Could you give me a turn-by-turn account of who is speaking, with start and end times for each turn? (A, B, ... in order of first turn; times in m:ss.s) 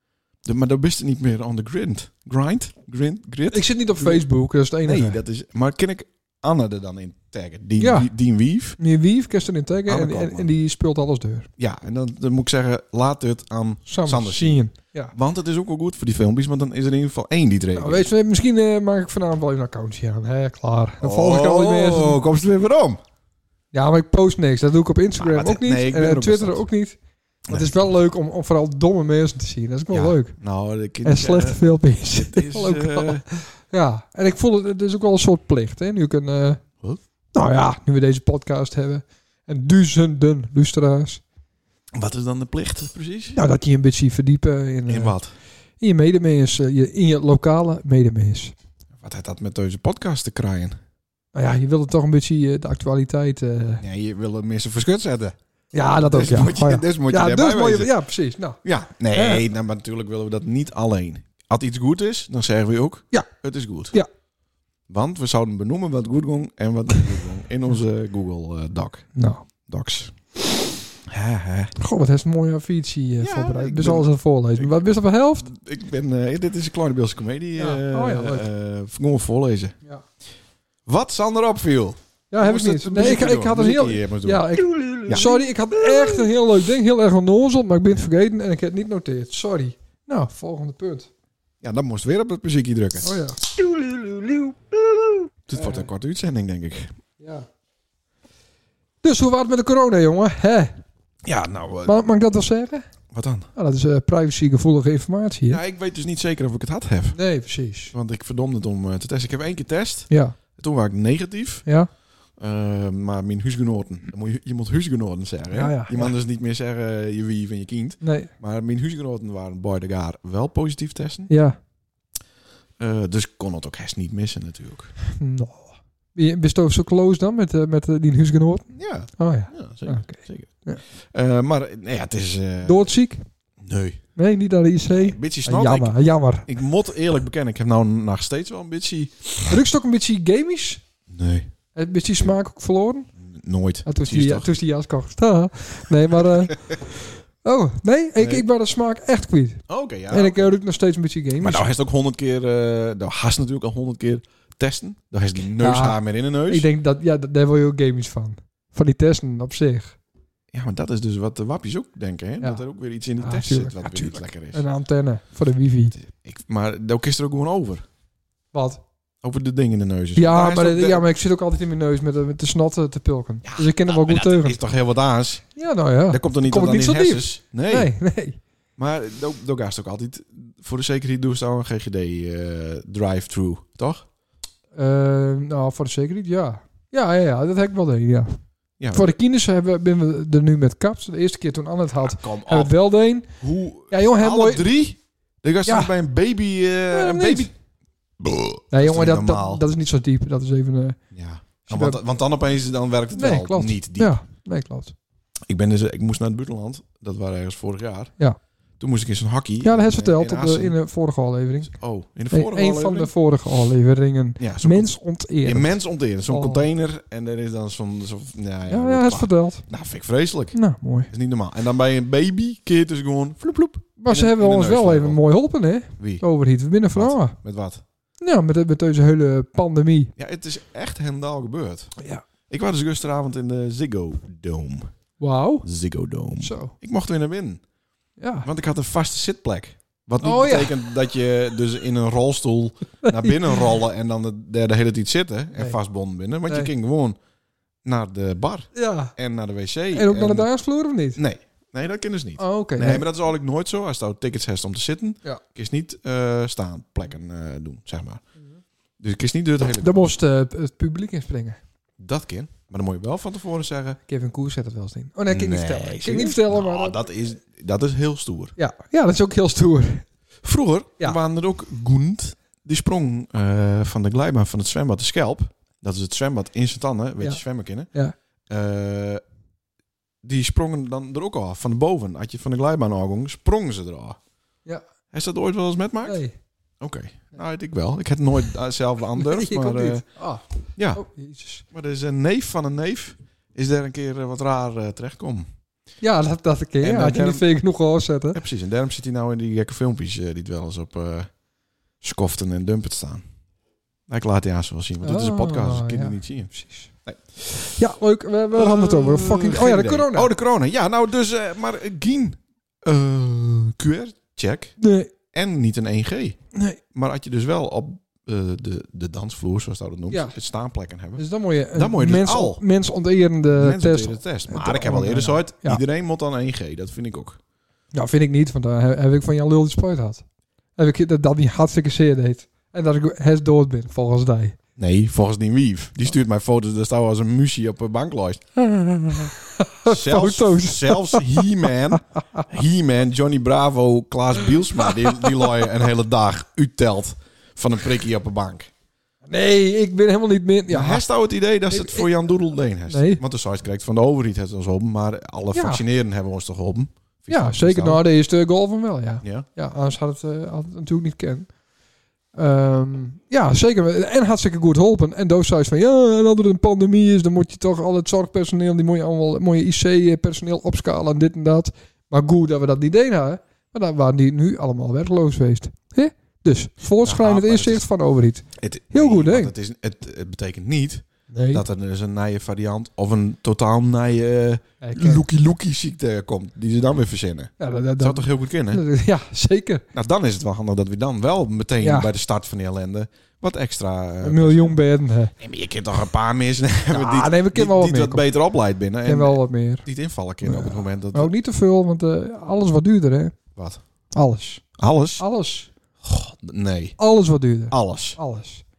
0:00.4-0:04.2 A
0:03.5-0:05.2 B
0:04.8-0:08.8 A
0:07.8-0:08.1 B
0:08.8-0:11.5 B
0:09.9-0:10.5 A
0:11.6-0:18.1 A
0:13.9-0:15.1 B
0:17.8-0:22.2 B
0:21.0-0:23.0 A
0:23.7-0:30.4 B
0:25.2-0:26.6 A
0:27.5-0:27.8 A
0:29.9-0:33.2 A
0:31.0-0:36.6 B
0:37.3-0:41.2 B
0:41.9-0:43.4 A
0:43.3-0:45.2 B
0:44.9-0:45.3 A
0:45.8-0:48.5 B
0:49.0-0:50.8 A
0:51.3-0:53.8 B
0:53.8-0:55.4 A
0:55.7-0:58.6 B
0:56.1-0:57.9 A
0:58.6-1:04.0 A
0:59.1-0:59.4 B
1:04.9-1:09.1 A
1:09.2-1:09.4 B
1:09.7-1:10.2 A
1:11.1-1:11.7 A
1:11.8-1:15.5 B
1:13.2-1:19.8 A
1:17.6-1:18.5 B
1:20.9-1:25.3 A
1:22.3-1:31.1 B
1:31.6-1:33.2 A
1:33.0-1:33.5 B
1:34.2-1:34.5 B
1:35.5-1:36.9 A
1:35.5-1:35.9 B
1:37.2-1:37.5 B
1:39.0-1:40.8 B
1:41.2-1:42.0 A
1:41.9-1:42.8 B
1:43.1-1:43.5 A
1:43.6-1:45.6 B
1:45.5-1:47.2 A
1:47.1-1:47.9 B
1:47.9-1:51.6 A
1:50.1-1:50.4 B
1:52.4-2:01.3 A
1:55.5-1:56.1 B
1:58.0-1:58.3 B
2:01.3-2:01.6 B
2:02.8-2:04.9 A
2:05.1-2:10.8 B
2:08.7-2:12.9 A
2:12.6-2:13.2 B
2:13.6-2:14.0 A
2:14.2-2:16.5 B
2:14.9-2:16.0 A
2:16.5-2:19.6 A
2:19.5-2:20.8 B
2:21.1-2:21.5 A
2:21.8-2:23.1 B
2:23.2-2:24.5 A
2:23.9-2:31.7 B
2:28.2-2:28.5 A
2:29.7-2:30.5 A
2:31.4-2:36.7 A
2:35.6-2:40.0 B
2:40.5-2:44.6 A
2:43.2-2:46.0 B
2:45.9-2:47.8 A
2:48.5-2:48.8 B
2:49.2-2:51.1 A
2:50.2-2:54.6 B
2:53.4-2:55.5 A
2:55.6-2:58.4 B
2:56.1-2:57.9 A
2:58.8-3:04.1 A
3:04.8-3:08.3 B
3:08.8-3:09.1 A
3:08.9-3:13.4 B
3:12.0-3:12.7 A
3:13.4-3:17.5 A
3:13.9-3:14.7 B
3:15.7-3:15.9 B
3:16.9-3:17.5 B
3:18.2-3:19.6 A
3:18.7-3:21.0 B
3:21.1-3:24.2 A
3:21.6-3:22.0 B
3:23.2-3:25.0 B
3:25.5-3:28.1 A
3:28.8-3:30.8 A
3:29.6-3:31.8 B
3:31.7-3:33.1 A
3:32.3-3:35.8 B
3:34.4-3:34.9 A
3:35.4-3:40.6 A
3:36.3-3:36.6 B
3:38.7-3:39.6 B
3:40.5-3:41.1 B
3:41.1-3:45.2 A
3:44.0-3:47.4 B
3:46.0-3:46.2 A
3:46.9-3:47.8 A
3:48.2-3:50.1 B
3:50.2-3:51.9 A
3:52.0-3:52.2 B
3:52.5-3:54.9 A
3:55.2-3:55.7 B
3:55.6-3:57.6 A
3:56.4-3:56.7 B
3:58.2-3:58.5 B
3:58.4-4:07.2 A
4:00.2-4:00.9 B
4:03.0-4:03.6 B
4:07.8-4:10.5 A
4:08.8-4:09.1 B
4:09.9-4:11.2 B
4:11.2-4:18.2 A
4:12.4-4:13.1 B
4:19.0-4:20.2 A
4:19.8-4:21.6 B
4:22.0-4:24.0 A
4:24.1-4:27.0 B
4:25.3-4:28.6 A
4:28.6-4:30.1 B
4:30.4-4:37.9 A
4:38.5-4:39.2 A
4:40.2-4:44.2 A
4:45.1-4:46.2 A
4:46.0-4:46.3 B
4:46.8-4:50.0 A
4:49.2-4:50.4 B
4:50.8-4:51.0 A
4:50.9-4:51.6 B
4:51.7-4:55.5 A
4:56.0-4:58.4 B
4:56.8-4:57.5 A
4:58.3-5:01.3 A
5:02.0-5:03.2 A
5:04.1-5:06.5 A
5:05.0-5:06.9 B
5:07.0-5:07.8 A
5:07.8-5:10.3 B
5:08.5-5:14.7 A
5:14.8-5:15.1 B
5:15.3-5:16.4 A
5:16.5-5:16.8 B
5:16.9-5:22.6 A
5:21.2-5:25.8 B
5:23.5-5:27.4 A
5:27.9-5:30.2 B
5:30.8-5:34.6 B
5:34.8-5:38.4 A
5:38.8-5:42.4 B
5:39.8-5:48.7 A
5:49.3-5:51.1 B
5:50.7-5:58.0 A
5:51.7-5:52.1 B
5:52.9-5:53.2 B
5:55.5-5:55.8 B
5:57.3-6:01.5 B
5:59.2-5:59.5 A
6:02.4-6:19.5 B
6:17.0-6:17.8 A
6:18.6-6:28.8 A
6:21.3-6:21.6 B
6:24.8-6:25.2 B
6:27.6-6:29.8 B
6:29.9-6:34.8 A
6:31.8-6:32.1 B
6:34.2-6:35.3 B
6:35.4-6:41.3 A
6:36.9-6:38.3 B
6:39.0-6:39.9 B
6:40.4-6:43.4 B
6:43.6-6:43.8 A
6:44.1-6:44.6 B
6:44.8-6:45.2 A
6:45.2-6:45.7 B
6:46.0-6:47.0 A
6:47.0-6:48.6 B
6:47.7-6:48.2 A